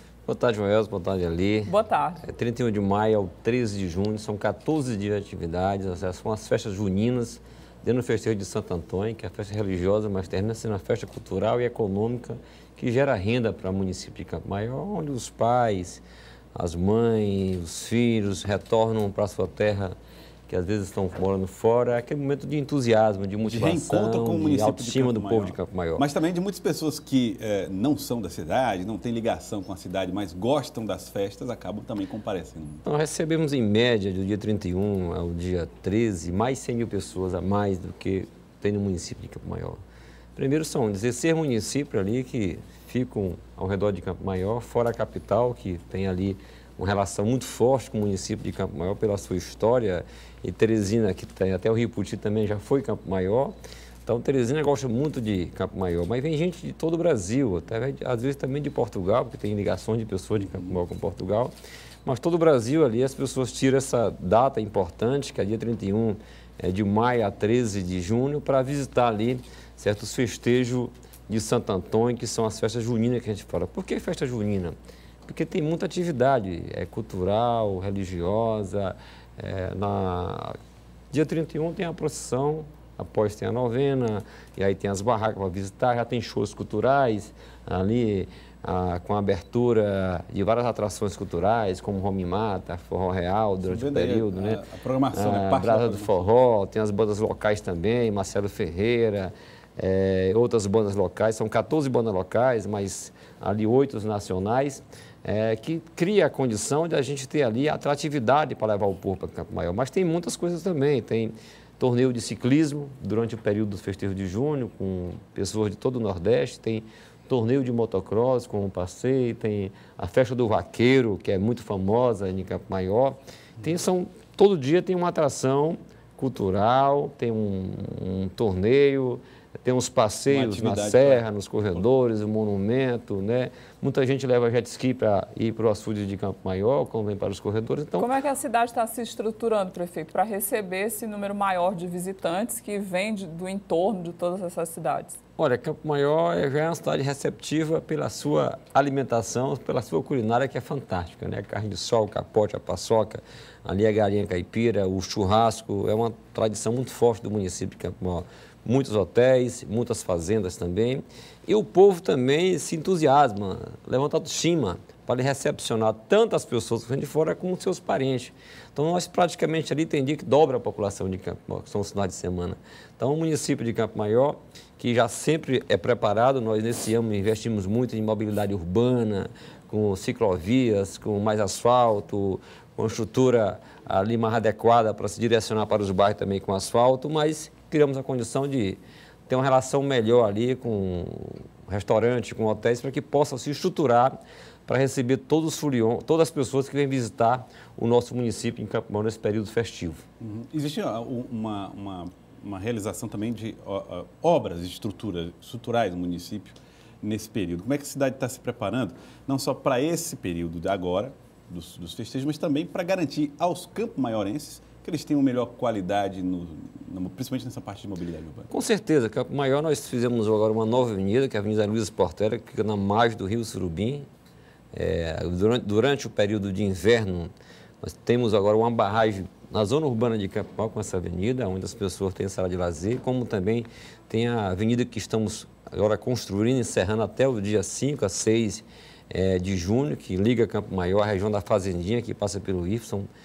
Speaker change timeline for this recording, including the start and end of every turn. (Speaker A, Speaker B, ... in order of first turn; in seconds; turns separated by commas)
Speaker A: 0.3-16.0, Speaker B: 1.7-2.2, Speaker A: 16.6-19.9, Speaker A: 20.5-26.1, Speaker C: 23.4-32.9, Speaker A: 32.9-39.8, Speaker A: 40.4-53.5, Speaker A: 54.1-61.5, Speaker A: 62.0-80.6, Speaker A: 81.1-138.1, Speaker C: 93.6-96.3, Speaker C: 130.3-131.8, Speaker B: 138.0-145.2, Speaker A: 145.4-194.1, Speaker A: 194.7-200.0, Speaker C: 200.2-218.5, Speaker A: 218.5-224.1, Speaker A: 224.7-243.1